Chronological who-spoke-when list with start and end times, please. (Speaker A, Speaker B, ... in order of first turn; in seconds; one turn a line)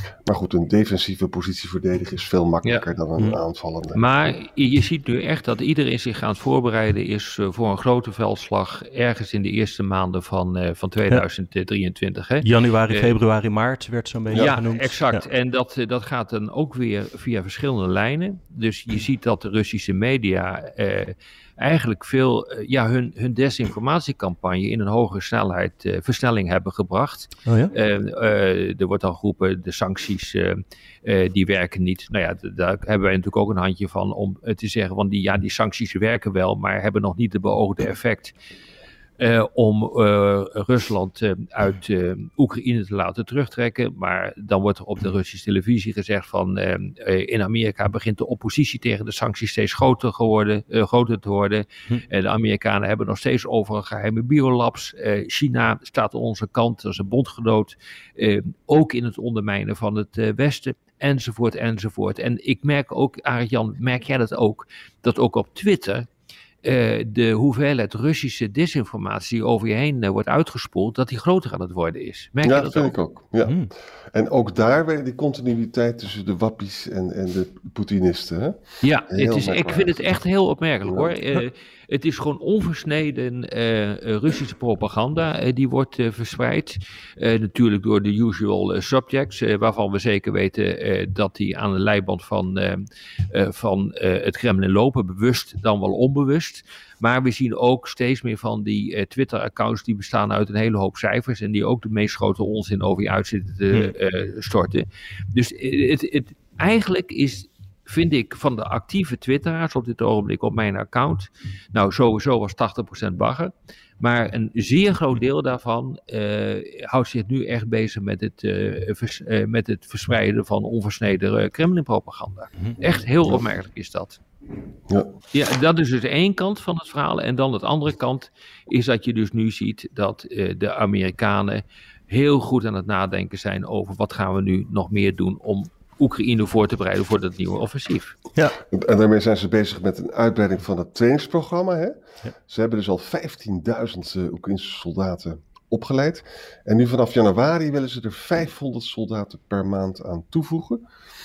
Speaker A: 0.2-4.0
Speaker B: 3.9-13.1
Speaker C: 12.4-15.2
Speaker A: 14.3-14.6
Speaker B: 14.3-38.3
Speaker C: 27.4-27.7
Speaker B: 39.2-66.1
Speaker B: 66.6-72.9
Speaker A: 72.4-78.6
Speaker B: 78.8-124.2
Speaker A: 79.1-80.0
Speaker A: 80.8-81.1
Speaker B: 125.3-138.2
Speaker A: 138.7-150.8